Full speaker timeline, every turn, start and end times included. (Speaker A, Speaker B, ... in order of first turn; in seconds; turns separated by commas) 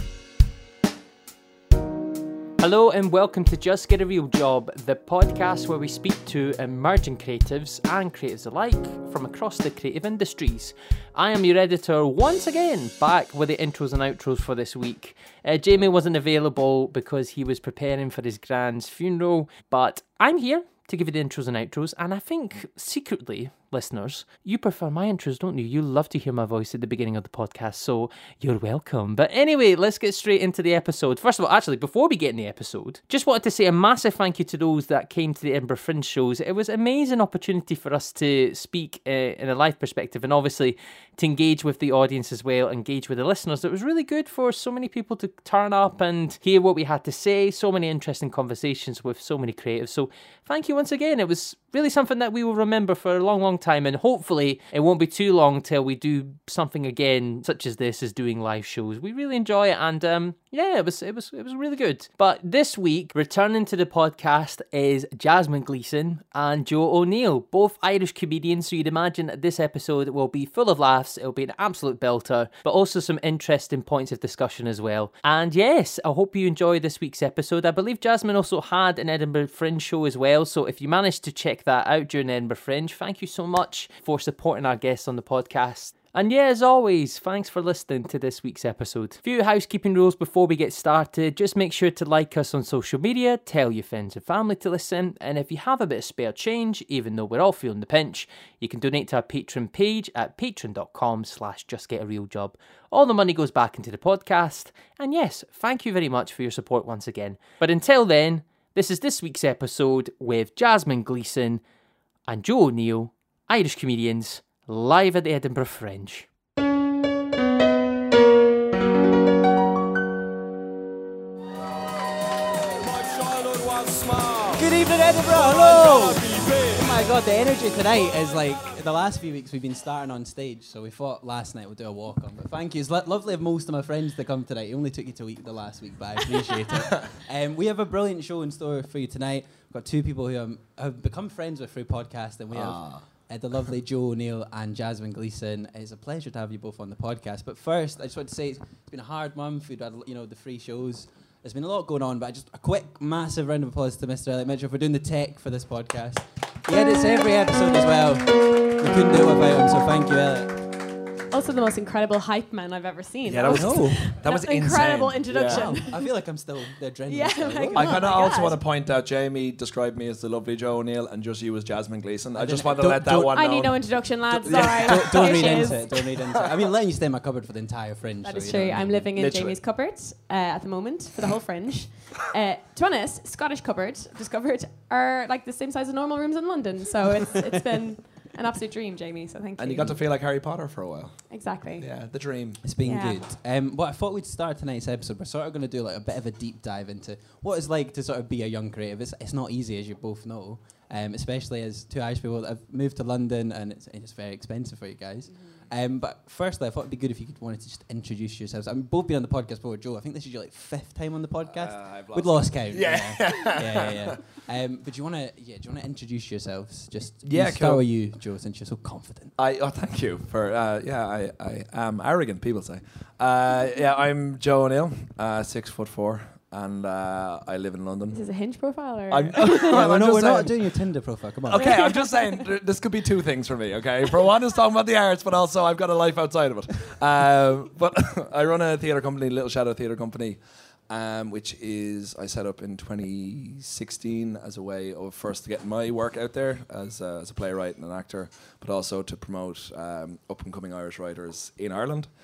Speaker A: 2.6-111.6, Speaker A: 112.3-116.3, Speaker B: 124.5-160.7, Speaker C: 142.5-143.1, Speaker D: 161.3-166.2, Speaker C: 163.2-165.8, Speaker B: 163.4-164.1, Speaker B: 165.5-168.1, Speaker D: 167.1-168.6, Speaker C: 167.7-176.7, Speaker B: 172.3-173.6, Speaker D: 173.3-175.8, Speaker B: 174.3-179.1, Speaker D: 178.2-190.0, Speaker C: 179.1-179.6, Speaker C: 189.6-192.6, Speaker D: 191.3-191.9, Speaker B: 192.6-219.3, Speaker D: 192.8-193.2, Speaker C: 211.5-214.2, Speaker C: 217.2-217.8, Speaker C: 219.4-228.2, Speaker D: 228.1-229.8, Speaker C: 229.1-230.7, Speaker B: 229.7-231.8, Speaker C: 231.5-252.1, Speaker D: 231.5-232.4